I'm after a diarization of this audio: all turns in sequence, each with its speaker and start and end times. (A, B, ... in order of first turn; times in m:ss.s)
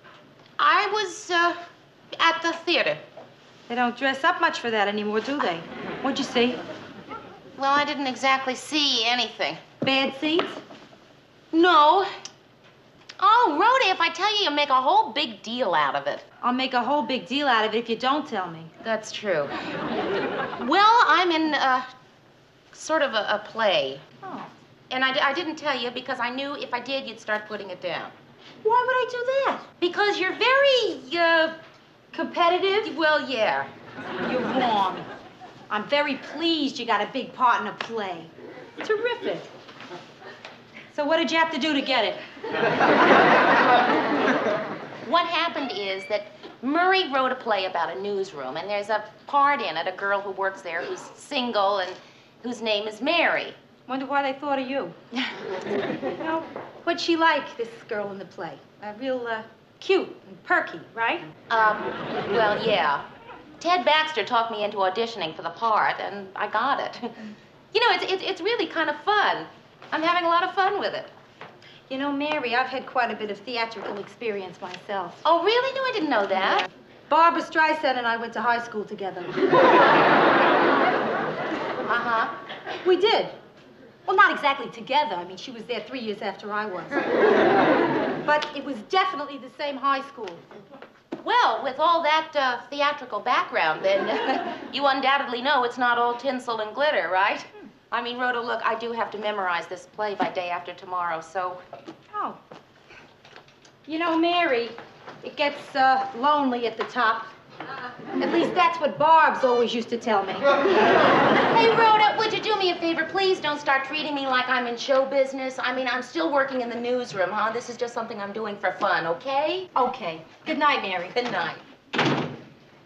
0:00.6-0:01.6 A
0:02.2-0:03.0 A
0:03.7-0:06.6 B
0:07.6-0:09.6 A
0:09.8-0:10.6 B
0:11.5-0:12.1 A
0:13.2-0:16.2 A
0:16.4-0:18.7 B
0:18.8-0:19.5 A
0:20.6-0:21.9 A
0:22.7-0:24.0 A
0:24.2-0:24.5 B
0:24.9-0:28.1 A
0:28.6-0:29.6 B
0:29.8-0:31.6 A
0:32.1-0:32.9 B
0:32.8-0:33.7 A
0:34.2-0:35.0 B
0:35.7-0:39.5 B
0:40.9-0:42.2 B
0:45.0-0:53.6 A
0:53.9-0:55.0 B
0:56.2-1:01.2 B
1:01.5-1:03.0 A
1:03.6-1:11.1 A
1:11.9-1:15.2 B
1:15.2-1:16.7 A
1:17.1-1:19.4 B
1:21.9-1:22.3 A
1:22.8-1:23.3 B
1:24.1-1:27.0 B
1:28.2-1:30.4 B
1:31.2-1:41.6 A
1:42.1-1:42.4 B
1:43.9-1:47.3 B
1:48.2-1:50.5 B
1:51.4-1:59.7 A
1:59.8-2:01.2 B
2:01.1-2:01.6 A